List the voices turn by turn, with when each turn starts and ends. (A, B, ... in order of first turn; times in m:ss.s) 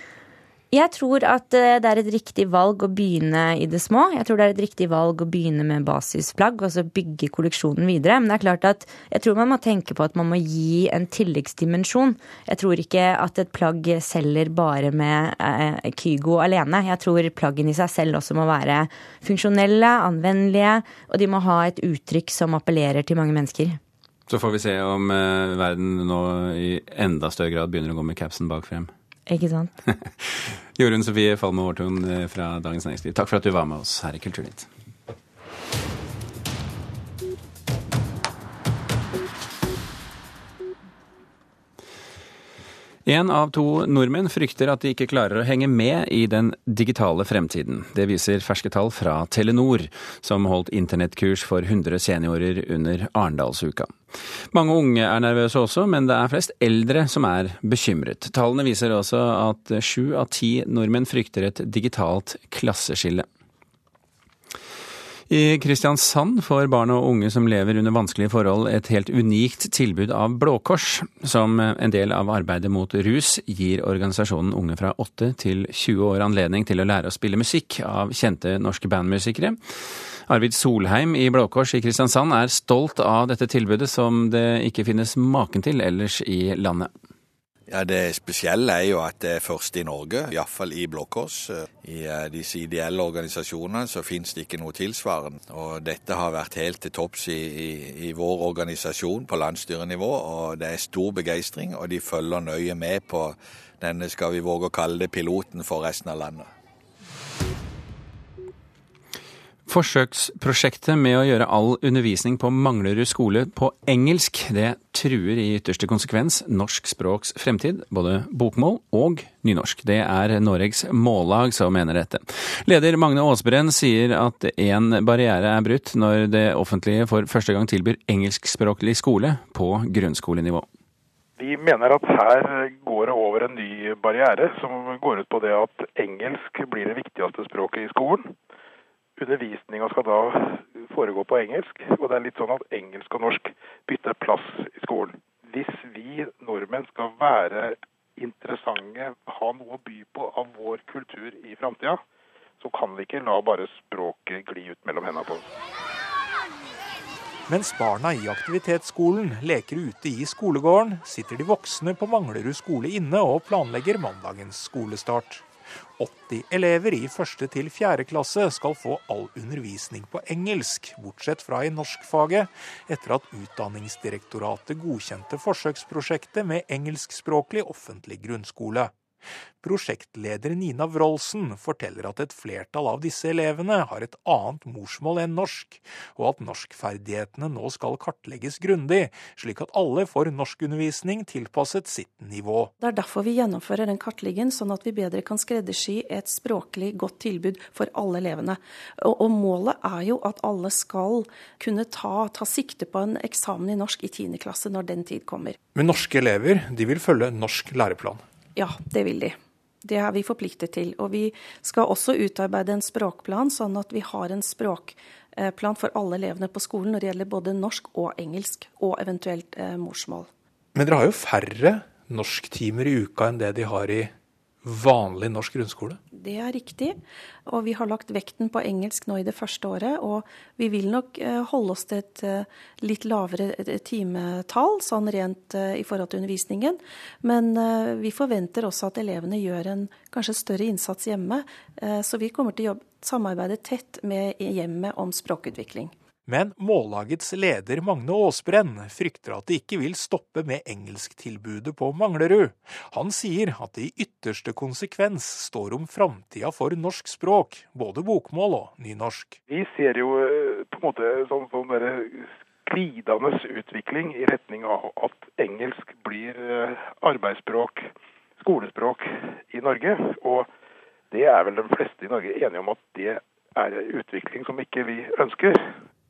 0:00.7-0:23.8 A
0:24.3-0:28.9 B
0:29.3-0:29.8 A
0:30.2-0:34.7 B
0:43.1-0:54.0 B
0:54.5-1:03.3 B
1:05.3-1:19.6 B
1:20.3-1:26.9 B
1:27.7-1:46.5 C
1:49.7-2:10.7 B
2:11.4-2:18.3 D
2:19.2-2:32.0 D
2:32.6-2:35.4 D
2:37.5-2:59.0 E
2:59.6-3:12.7 E
3:12.8-3:25.6 F
3:25.8-3:28.2 E
3:28.6-3:40.3 F
3:40.8-3:44.1 E
3:44.6-3:46.0 E
3:46.1-4:06.0 F
4:06.3-4:19.4 E
4:19.5-4:30.5 D
4:31.1-4:35.7 D